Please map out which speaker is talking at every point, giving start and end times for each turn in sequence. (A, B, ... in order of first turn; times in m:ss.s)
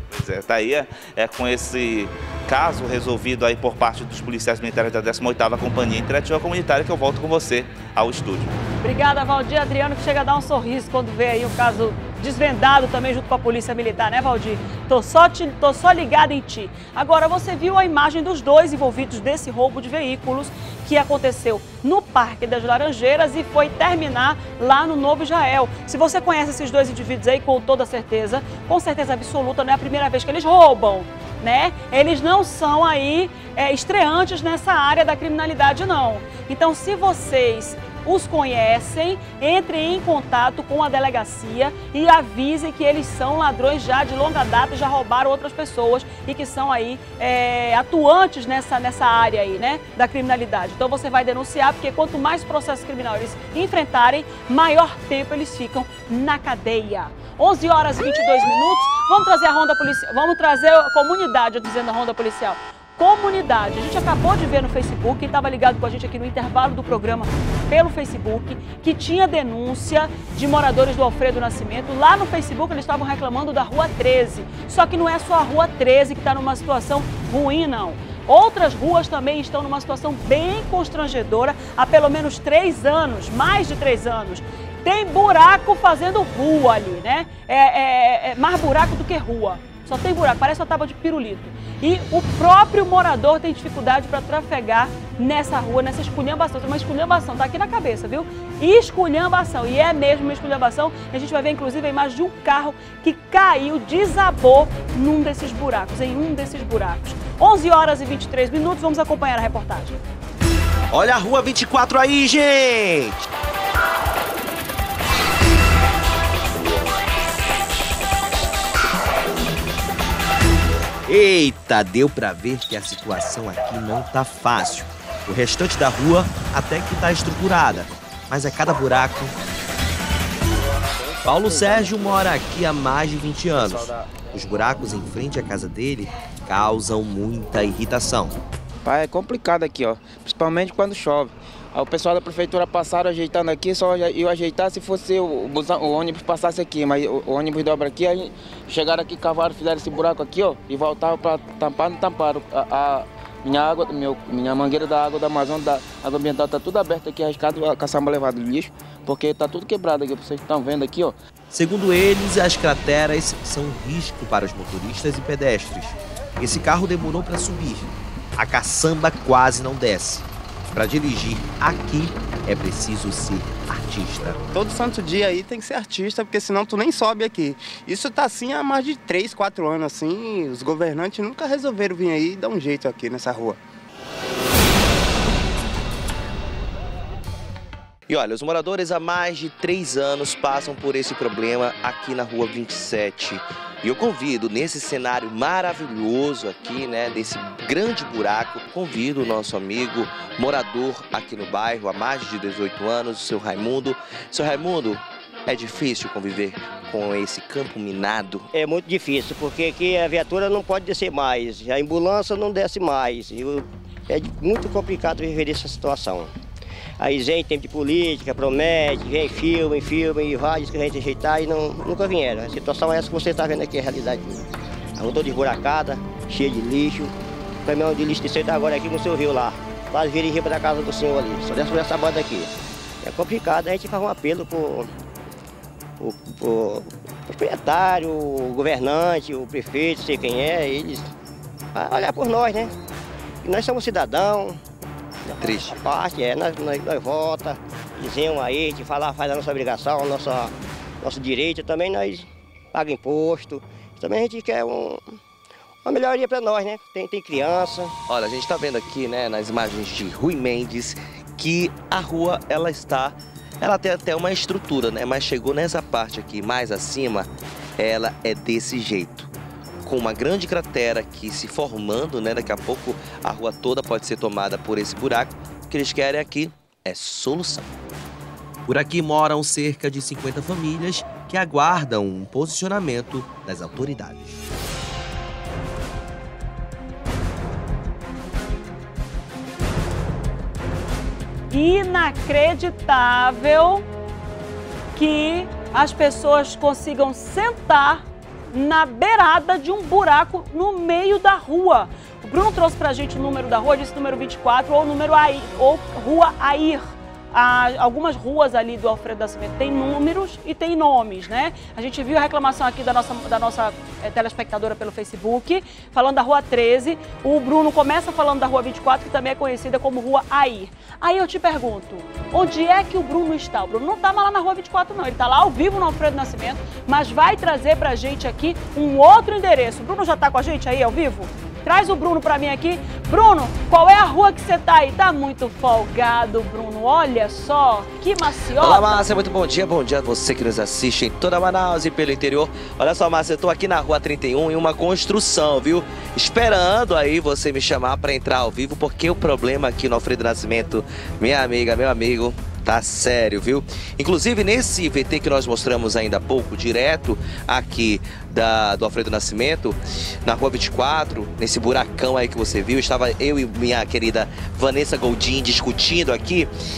0:00.1-0:08.5 A
0:08.8-1:50.0 B
1:50.9-1:53.3 C
2:01.1-2:09.4 C
2:11.0-2:12.2 D
2:11.2-2:18.4 C
2:13.6-2:14.1 D
2:18.8-2:41.2 D
2:41.5-2:54.5 C
2:54.5-3:03.6 E
3:08.1-3:28.5 C
3:28.5-3:36.3 F
3:37.0-3:44.5 F
3:45.0-3:47.1 F
3:47.7-3:52.5 F
3:53.0-3:54.9 F
3:56.0-4:01.1 F
4:01.8-4:02.7 F
4:03.4-4:04.6 F
4:05.2-4:15.0 F
4:05.4-4:05.8 C
4:15.8-4:17.9 F
4:18.1-4:29.3 C
4:29.8-4:37.7 C
4:38.7-4:44.4 C
4:51.5-4:53.9 B
4:55.0-5:39.0 B
5:38.6-6:06.5 C